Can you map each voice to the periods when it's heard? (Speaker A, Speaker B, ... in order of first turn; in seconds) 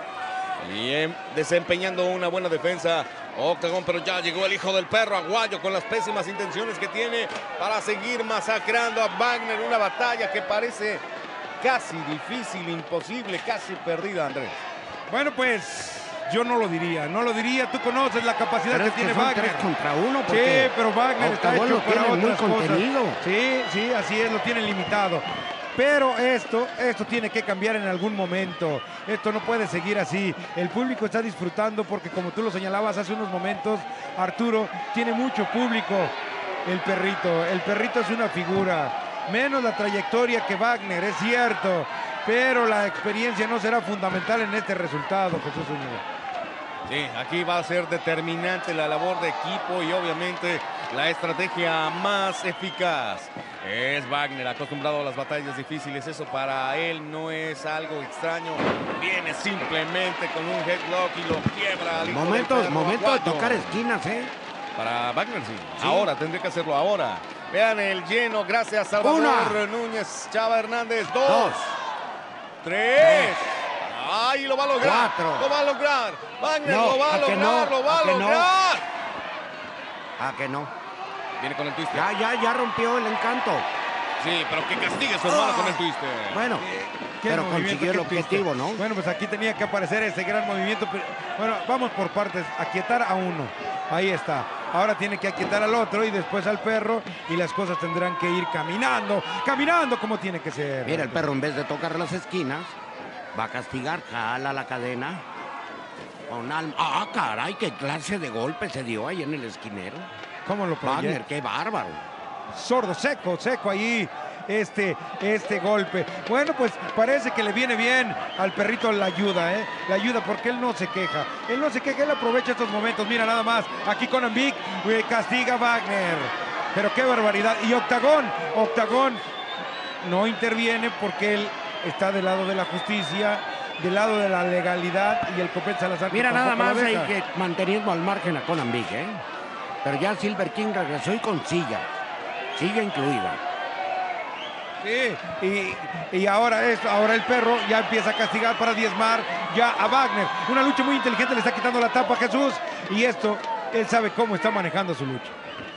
Speaker A: 0.6-11.0, 11.6-14.6, 46.9-63.8, 64.8-71.6, 72.6-78.8, 81.4-82.1, 84.2-86.4
Speaker B: 15.1-19.7, 20.3-36.1, 36.6-46.0, 86.6-101.2, 110.5-111.2, 112.5-129.2, 130.0-137.1, 144.8-155.3
Speaker C: 18.7-23.2, 62.0-64.3, 65.8-66.1, 69.0-69.6, 71.2-71.8, 73.0-73.4, 74.8-75.5, 76.6-78.5, 80.2-80.7, 81.9-83.7, 86.3-86.7, 87.3-88.8, 100.8-102.8, 103.3-105.2, 106.3-110.1, 110.8-112.0, 136.1-139.2, 139.8-141.9, 142.5-143.4